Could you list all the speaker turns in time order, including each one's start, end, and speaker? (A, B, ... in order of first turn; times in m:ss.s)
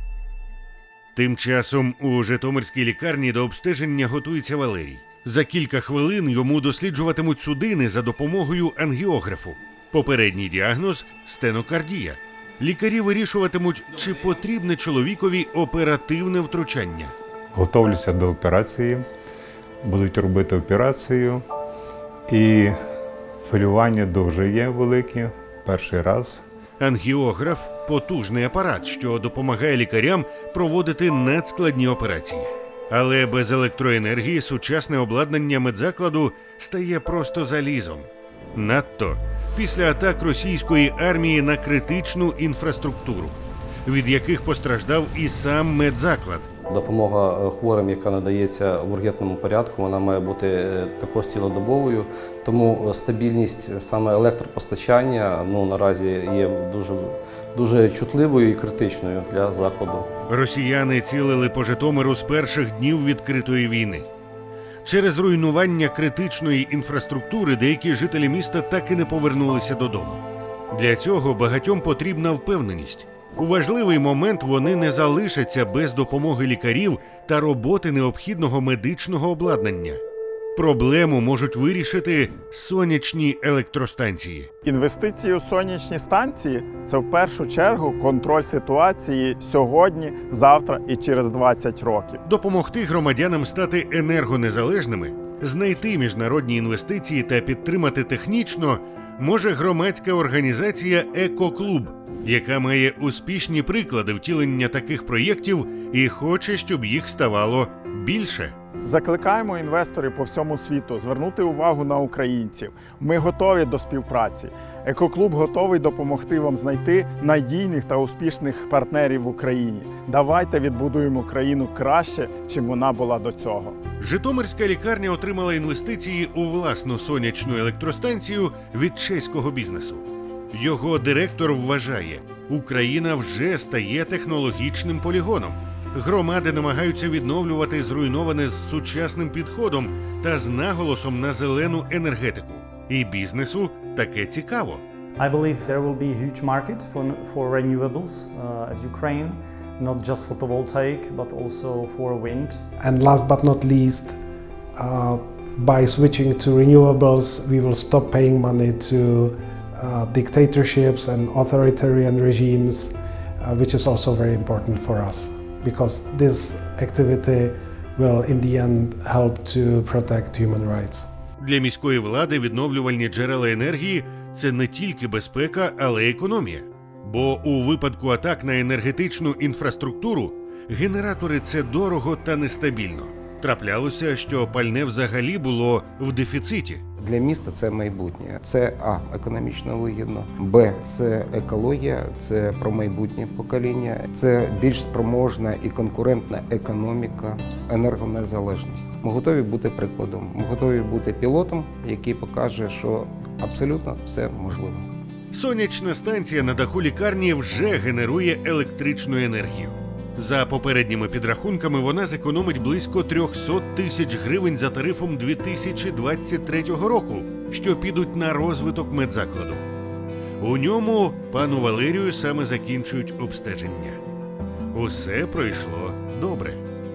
0:01.2-0:17.1 A
0:17.5-0:19.0 B
0:19.8-0:21.4 B
0:22.3-0:22.8 B
0:23.4-0:26.4 B
0:26.8-0:46.5 A
0:46.7-1:00.1 C
1:00.3-1:04.1 A
1:04.8-1:20.0 A
1:20.6-1:24.5 A
1:24.6-1:32.2 D
1:32.3-1:48.5 A
1:48.8-2:03.8 D
2:04.0-2:24.8 A
2:25.2-2:32.6 E
2:32.8-2:34.2 F
2:34.8-2:51.1 F
2:51.4-3:06.8 A
3:07.0-3:24.9 G
3:25.3-3:39.6 A
3:40.4-3:44.0 A
3:44.7-3:46.6 A